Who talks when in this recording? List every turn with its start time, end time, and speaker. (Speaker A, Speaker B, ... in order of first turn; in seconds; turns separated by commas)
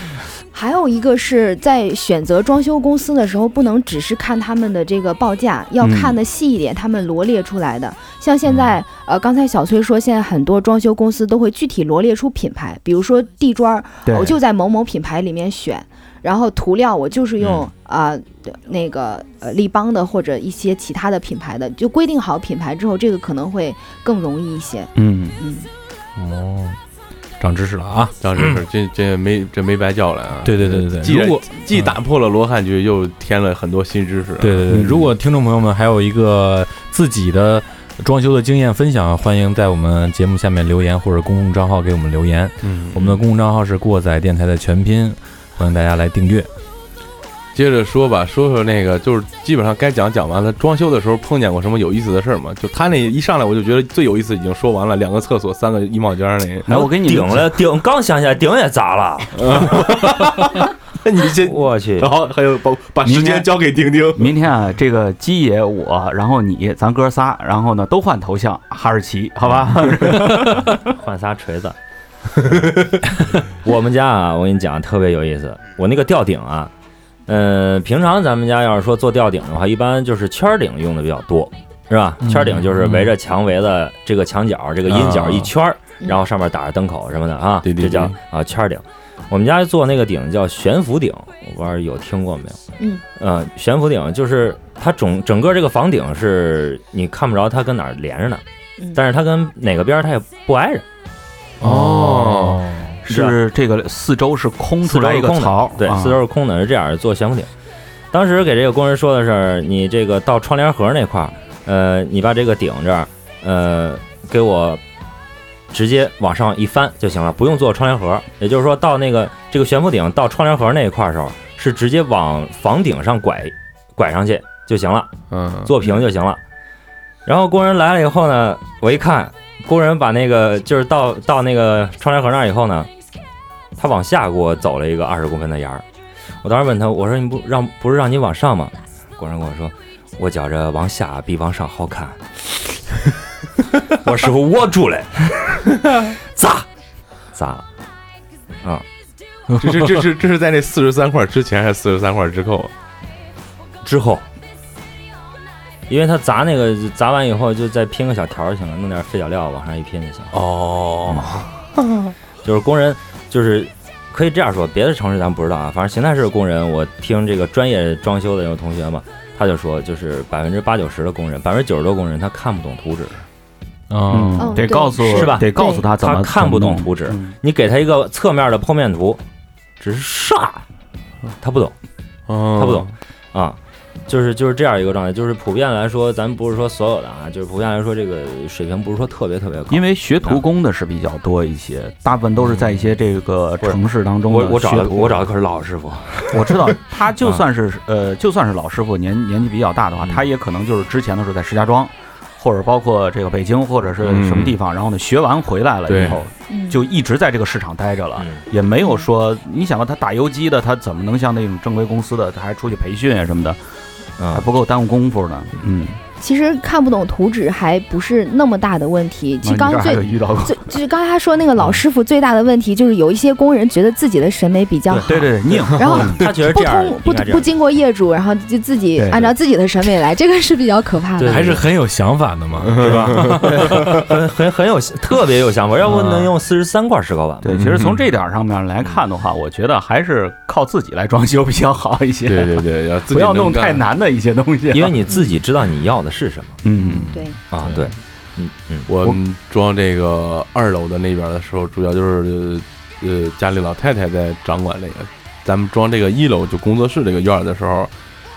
Speaker A: 0.5-25.7, Speaker B: 5.8-6.2, Speaker B: 14.1-14.4, Speaker C: 17.4-17.7, Speaker B: 24.9-25.4, Speaker D: 26.1-26.8, Speaker D: 27.4-28.6, Speaker E: 28.2-34.7, Speaker D: 30.4-31.9, Speaker D: 34.4-46.5, Speaker B: 34.7-35.1, Speaker E: 42.6-43.2, Speaker E: 47.5-56.8, Speaker B: 56.6-57.5, Speaker C: 56.7-59.7, Speaker E: 59.4-64.3, Speaker C: 61.4-62.1, Speaker B: 63.0-63.5, Speaker B: 64.1-70.9, Speaker C: 70.8-71.8, Speaker E: 72.4-73.0, Speaker C: 73.6-76.7, Speaker C: 77.3-92.6, Speaker D: 82.2-83.1, Speaker E: 84.9-85.5, Speaker E: 87.6-88.2, Speaker C: 93.2-98.4, Speaker C: 98.9-100.8, Speaker E: 101.6-102.6, Speaker D: 101.6-103.0, Speaker B: 103.0-106.2, Speaker C: 103.1-103.3, Speaker C: 104.8-107.5, Speaker C: 108.1-114.8, Speaker C: 115.7-125.1, Speaker E: 125.3-125.7, Speaker C: 125.6-126.4, Speaker C: 127.2-132.9, Speaker C: 133.8-135.8, Speaker C: 136.4-142.2, Speaker C: 143.9-146.7, Speaker C: 147.3-147.6, Speaker E: 149.6-152.7, Speaker C: 153.8-154.3, Speaker C: 155.9-160.3, Speaker E: 160.3-161.5, Speaker C: 161.1-161.4, Speaker C: 162.4-173.2, Speaker D: 173.9-174.6, Speaker B: 174.1-177.3, Speaker A: 174.4-175.8, Speaker C: 175.1-179.2, Speaker C: 179.8-180.6, Speaker C: 181.4-181.7, Speaker E: 182.3-182.9, Speaker C: 182.5-190.4, Speaker B: 189.7-195.3, Speaker C: 193.6-197.4, Speaker B: 196.3-213.6, Speaker E: 204.0-204.6, Speaker E: 205.9-206.2, Speaker A: 206.5-206.9, Speaker C: 208.2-208.4, Speaker A: 208.8-209.1, Speaker C: 214.2-214.5, Speaker B: 214.3-216.0, Speaker A: 216.2-231.5, Speaker B: 219.4-220.7, Speaker B: 224.9-226.2, Speaker C: 225.9-227.5, Speaker B: 228.9-229.3, Speaker C: 231.2-231.7, Speaker D: 231.2-234.1, Speaker E: 232.7-233.4, Speaker B: 232.8-233.2, Speaker C: 233.4-237.5, Speaker B: 237.4-244.9, Speaker E: 237.5-238.0, Speaker E: 242.3-243.8, Speaker C: 244.7-246.6, Speaker B: 246.6-247.2, Speaker A: 247.1-247.3, Speaker C: 247.5-248.9, Speaker E: 248.9-257.9